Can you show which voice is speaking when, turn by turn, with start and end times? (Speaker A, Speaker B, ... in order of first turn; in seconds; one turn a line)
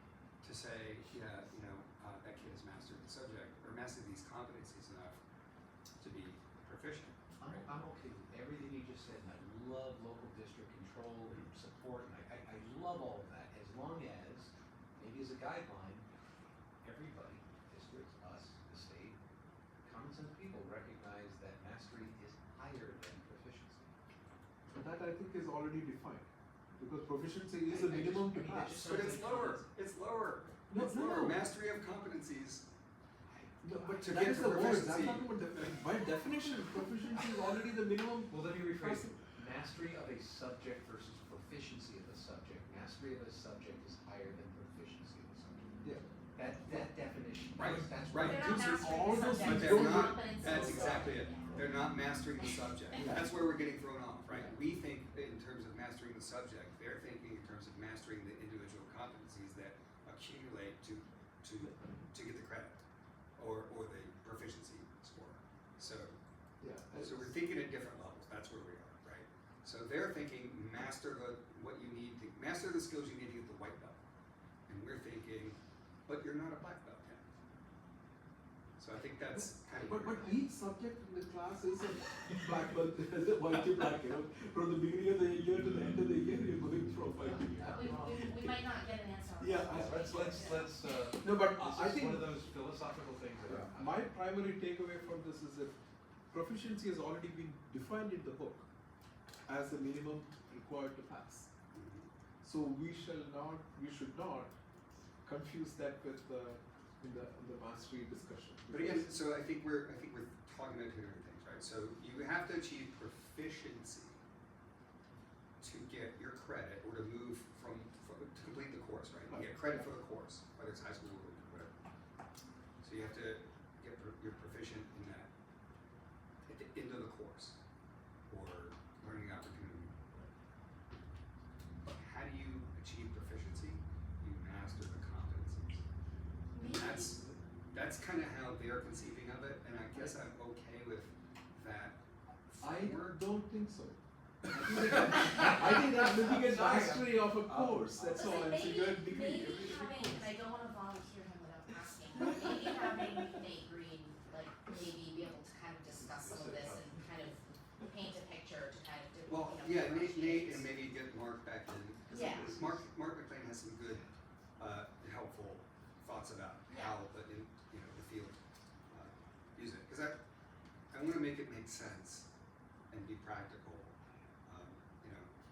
Speaker A: 0.4-5.2
Speaker A: 6.0-7.7
Speaker B: 7.4-16.1
Speaker B: 16.8-19.2
Speaker B: 19.8-23.9
Speaker C: 24.7-28.8
Speaker B: 27.6-29.6
Speaker A: 28.7-32.7
Speaker C: 30.7-31.4
Speaker B: 33.3-33.9
Speaker C: 33.6-39.2
Speaker A: 33.9-35.7
Speaker B: 38.2-45.8
Speaker B: 46.3-48.6
Speaker A: 47.5-62.8
Speaker C: 47.6-51.2
Speaker D: 48.2-51.8
Speaker D: 52.4-53.1
Speaker C: 52.9-53.3
Speaker C: 54.3-54.5
Speaker C: 61.6-62.0
Speaker A: 63.4-66.2
Speaker C: 66.6-67.3
Speaker A: 66.9-74.0
Speaker A: 74.7-77.2
Speaker A: 78.8-80.3
Speaker C: 79.3-88.6
Speaker D: 87.6-90.7
Speaker B: 87.6-88.2
Speaker C: 89.4-90.3
Speaker B: 89.7-94.1
Speaker C: 91.2-92.4
Speaker C: 93.4-95.7
Speaker C: 96.3-98.7
Speaker C: 99.5-101.5
Speaker A: 101.7-102.1
Speaker C: 102.4-104.5
Speaker C: 105.2-109.1
Speaker A: 108.7-114.2
Speaker A: 115.6-121.7
Speaker C: 119.3-119.9
Speaker A: 122.8-125.3
Speaker A: 126.4-127.6
Speaker A: 128.3-130.0
Speaker A: 131.8-135.8
Speaker D: 136.5-137.1
Speaker A: 136.6-143.2
Speaker C: 142.6-144.0
Speaker C: 144.5-150.3
Speaker B: 144.5-148.4
Speaker D: 148.1-160.7
Speaker B: 155.8-157.1
Speaker A: 159.2-164.0
Speaker D: 162.1-162.5
Speaker A: 164.6-170.2
Speaker D: 166.7-167.0
Speaker A: 170.9-172.3
Speaker A: 172.9-175.3